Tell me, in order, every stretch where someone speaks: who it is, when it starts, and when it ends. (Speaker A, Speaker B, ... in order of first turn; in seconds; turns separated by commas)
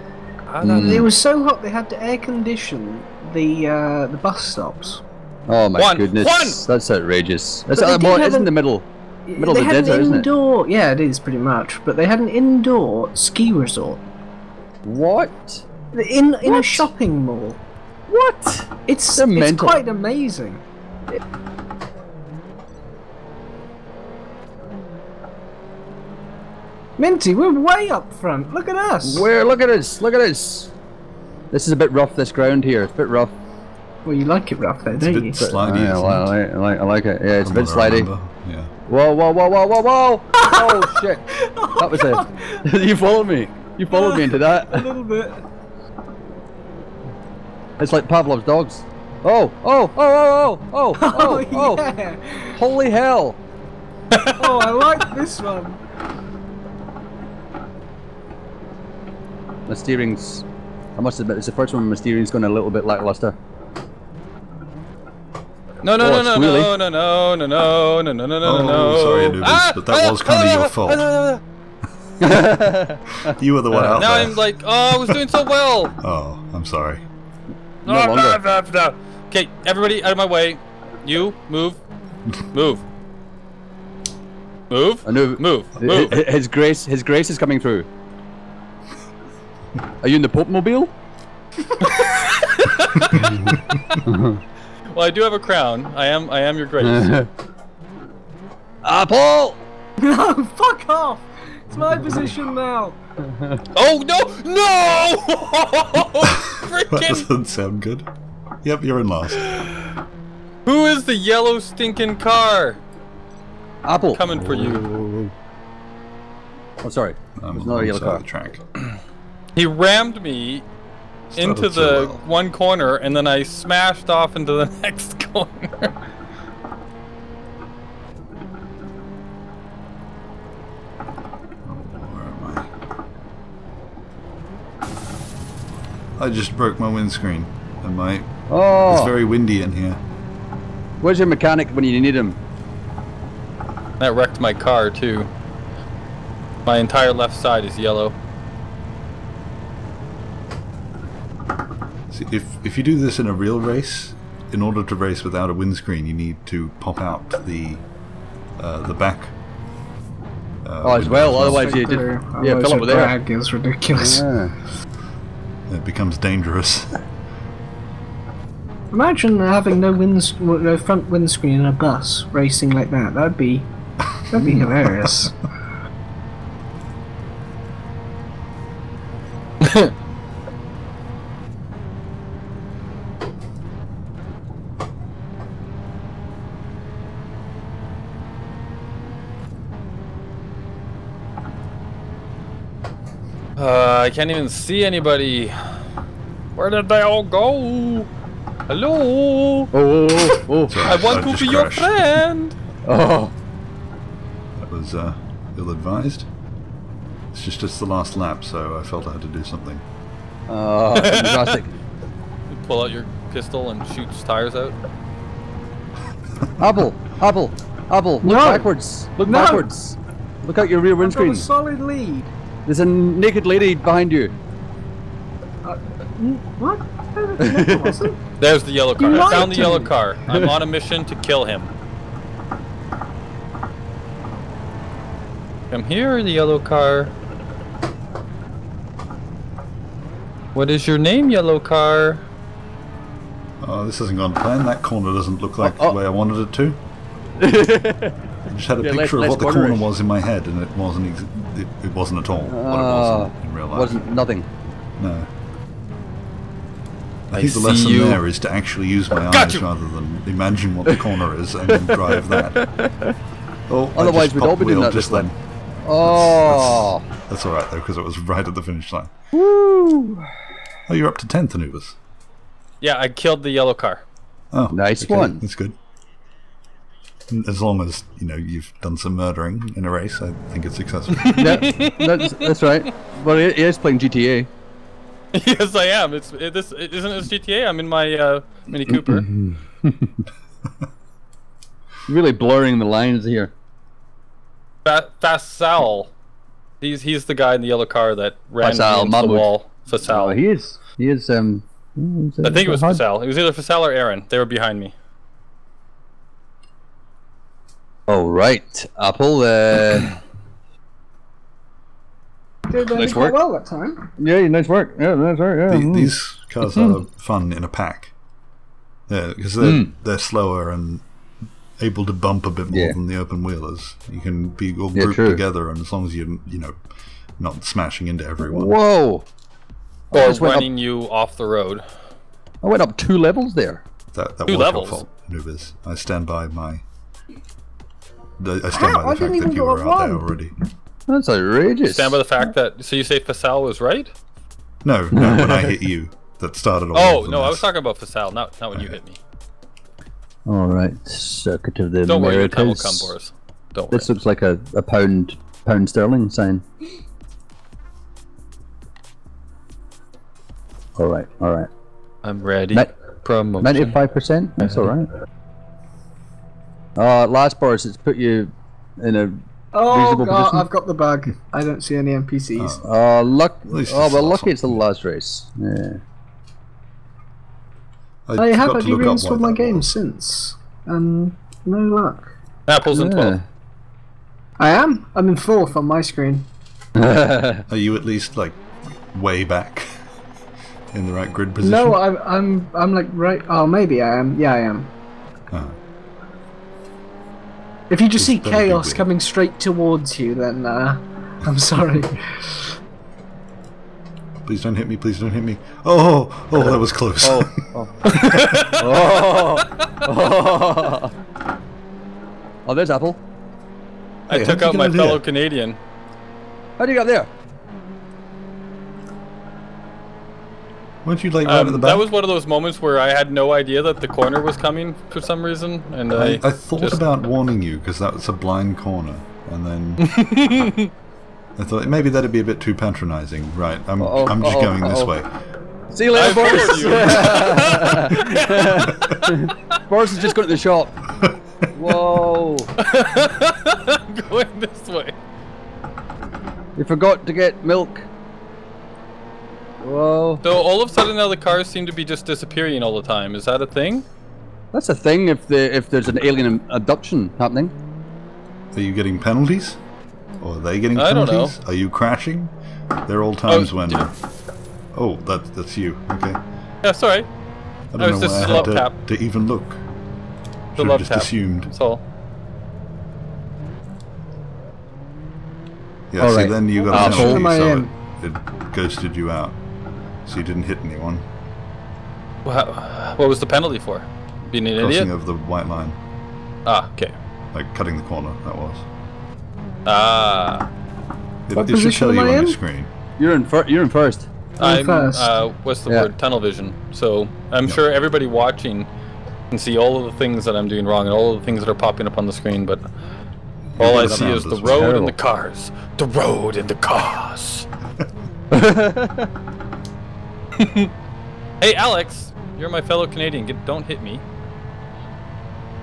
Speaker A: 0.5-1.1, Speaker B: 0.6-1.1, Speaker C: 0.6-5.0, Speaker B: 5.5-10.3, Speaker A: 5.8-6.6, Speaker C: 7.7-8.5, Speaker C: 9.3-14.0, Speaker B: 14.8-15.7, Speaker C: 15.9-17.6, Speaker B: 16.4-16.9, Speaker B: 18.1-19.8, Speaker C: 18.9-21.2, Speaker C: 27.0-29.3, Speaker B: 29.0-30.7, Speaker B: 31.5-33.4, Speaker C: 34.0-35.5, Speaker D: 35.0-36.3, Speaker B: 35.4-38.1, Speaker D: 37.4-38.7, Speaker B: 38.9-44.9, Speaker C: 40.4-42.6, Speaker C: 43.9-45.4, Speaker B: 47.8-51.8, Speaker C: 51.0-52.6, Speaker B: 52.5-53.4, Speaker A: 54.1-54.6, Speaker C: 54.4-55.8, Speaker B: 59.7-63.4, Speaker A: 65.8-71.4, Speaker B: 66.0-66.7, Speaker D: 68.4-71.0, Speaker B: 72.2-74.0, Speaker D: 73.2-74.4, Speaker A: 74.0-76.0, Speaker D: 76.0-77.0, Speaker B: 77.8-78.4, Speaker A: 77.8-81.8, Speaker A: 82.5-82.8, Speaker A: 84.7-86.2, Speaker B: 85.1-87.9, Speaker B: 90.0-90.9, Speaker A: 91.8-93.2, Speaker C: 91.9-92.3, Speaker B: 93.2-94.4, Speaker A: 94.9-97.2, Speaker B: 96.8-97.3, Speaker B: 98.8-99.6, Speaker C: 100.0-103.0, Speaker B: 103.2-103.6, Speaker A: 103.7-107.3, Speaker D: 106.2-108.1, Speaker D: 108.6-109.5, Speaker A: 109.4-109.8, Speaker A: 110.7-112.8, Speaker B: 113.8-114.3, Speaker A: 114.1-114.8, Speaker D: 114.3-115.3, Speaker B: 116.8-118.2, Speaker D: 117.4-118.6, Speaker A: 119.6-120.7, Speaker D: 121.3-122.2, Speaker A: 121.4-125.9, Speaker D: 131.7-132.7, Speaker D: 136.2-138.3, Speaker B: 138.5-139.1, Speaker D: 138.8-140.0, Speaker B: 141.0-142.4, Speaker A: 144.0-145.3, Speaker A: 146.7-148.2, Speaker D: 152.1-157.8, Speaker D: 158.6-159.3, Speaker D: 160.6-161.7, Speaker B: 160.8-163.1, Speaker C: 161.4-164.3, Speaker B: 163.9-164.6, Speaker D: 165.7-167.0, Speaker C: 168.9-173.7, Speaker C: 174.3-175.4, Speaker A: 179.6-179.9, Speaker A: 193.6-195.6, Speaker A: 196.6-198.1, Speaker A: 198.7-202.6, Speaker B: 199.7-201.1, Speaker D: 200.7-202.0, Speaker B: 202.8-203.3, Speaker D: 204.6-206.3, Speaker D: 207.3-209.8, Speaker B: 210.5-211.7, Speaker A: 210.9-211.6, Speaker A: 212.5-214.8, Speaker B: 216.6-221.5, Speaker C: 218.2-219.7, Speaker C: 221.0-222.3, Speaker B: 222.7-224.3, Speaker C: 225.6-228.2, Speaker B: 227.4-228.1, Speaker A: 228.4-231.7, Speaker C: 229.0-229.9, Speaker B: 229.1-230.6, Speaker A: 235.7-237.1, Speaker A: 240.5-242.2, Speaker D: 243.6-246.8, Speaker B: 245.6-246.0, Speaker B: 247.4-248.2, Speaker D: 248.5-254.0, Speaker B: 248.8-249.9, Speaker B: 252.5-254.5, Speaker D: 255.0-255.3, Speaker D: 257.3-262.6, Speaker B: 257.3-258.2, Speaker A: 259.3-259.6, Speaker B: 261.7-263.1, Speaker D: 263.7-265.4, Speaker B: 263.9-265.3, Speaker B: 265.9-267.1, Speaker D: 265.9-269.1, Speaker B: 269.3-270.3, Speaker D: 270.9-272.0, Speaker A: 272.8-274.0, Speaker D: 274.5-275.8, Speaker B: 274.7-275.4, Speaker D: 277.3-281.7, Speaker A: 281.2-282.5, Speaker B: 281.4-284.5, Speaker A: 285.3-289.3, Speaker B: 288.9-290.3, Speaker B: 292.1-293.5, Speaker A: 294.9-296.1, Speaker A: 296.8-300.4, Speaker B: 298.6-299.5, Speaker B: 300.0-303.0, Speaker A: 302.4-304.9, Speaker B: 308.1-310.1, Speaker C: 312.7-314.1, Speaker B: 312.9-313.4, Speaker B: 314.2-316.1, Speaker D: 315.7-318.1, Speaker D: 319.1-321.0, Speaker B: 319.6-319.9, Speaker D: 321.8-326.8, Speaker B: 322.7-323.0, Speaker B: 324.9-325.4, Speaker D: 327.4-328.8, Speaker B: 328.4-329.3, Speaker B: 330.1-330.7, Speaker A: 330.1-331.9, Speaker B: 332.6-333.8, Speaker D: 334.1-336.8, Speaker A: 334.5-335.1, Speaker D: 338.4-340.5, Speaker C: 338.7-340.3, Speaker B: 341.1-342.2, Speaker A: 341.8-344.1, Speaker D: 344.8-347.7, Speaker B: 345.1-345.8, Speaker A: 346.9-349.2, Speaker B: 350.5-353.1, Speaker A: 352.1-354.1, Speaker B: 353.9-356.6, Speaker B: 361.0-361.7, Speaker A: 362.2-364.0, Speaker B: 363.6-365.1, Speaker A: 364.6-364.9, Speaker B: 367.0-370.7, Speaker C: 369.7-372.9, Speaker D: 372.6-372.9, Speaker B: 372.8-376.0, Speaker D: 373.7-374.8, Speaker D: 378.3-380.0, Speaker C: 378.4-382.3, Speaker A: 382.7-383.4, Speaker B: 382.9-383.4, Speaker C: 384.6-386.5, Speaker B: 387.0-387.7, Speaker D: 387.7-389.9, Speaker D: 390.9-392.0, Speaker C: 391.6-394.9, Speaker D: 395.5-395.8, Speaker C: 397.9-402.7, Speaker D: 398.2-399.1, Speaker D: 404.4-407.6, Speaker B: 406.6-411.1, Speaker A: 408.1-410.1, Speaker B: 412.7-413.2, Speaker D: 414.3-415.2, Speaker A: 414.3-415.8, Speaker B: 416.8-417.3, Speaker D: 421.0-422.1, Speaker A: 421.4-427.0, Speaker D: 426.2-430.1, Speaker A: 430.0-430.9, Speaker D: 431.6-435.3, Speaker B: 434.0-435.1, Speaker B: 435.9-441.0, Speaker A: 436.1-439.6, Speaker B: 441.7-442.7, Speaker A: 442.8-445.1, Speaker B: 446.8-448.1, Speaker B: 449.8-450.4, Speaker A: 450.4-454.1, Speaker B: 454.7-457.7, Speaker D: 458.7-459.8, Speaker D: 460.4-462.5, Speaker A: 460.9-461.6, Speaker D: 463.1-464.1, Speaker A: 463.5-464.1, Speaker D: 464.9-466.4, Speaker A: 466.8-467.3, Speaker D: 467.9-469.8, Speaker A: 468.0-468.9, Speaker D: 470.7-471.7, Speaker A: 470.8-472.0, Speaker D: 476.1-479.6, Speaker B: 476.2-477.5, Speaker C: 476.8-477.9, Speaker D: 480.3-481.3, Speaker A: 482.4-485.1, Speaker D: 484.8-486.0, Speaker A: 486.7-487.1, Speaker D: 487.5-488.9, Speaker A: 489.9-490.7, Speaker D: 491.5-492.9, Speaker C: 491.6-492.6, Speaker B: 493.2-494.3, Speaker A: 494.6-498.9, Speaker C: 494.6-495.4, Speaker B: 495.9-496.1, Speaker A: 499.5-502.8, Speaker D: 503.7-504.8, Speaker A: 503.8-507.7, Speaker B: 503.8-505.1, Speaker B: 508.5-509.3, Speaker A: 510.6-510.9, Speaker A: 511.6-514.2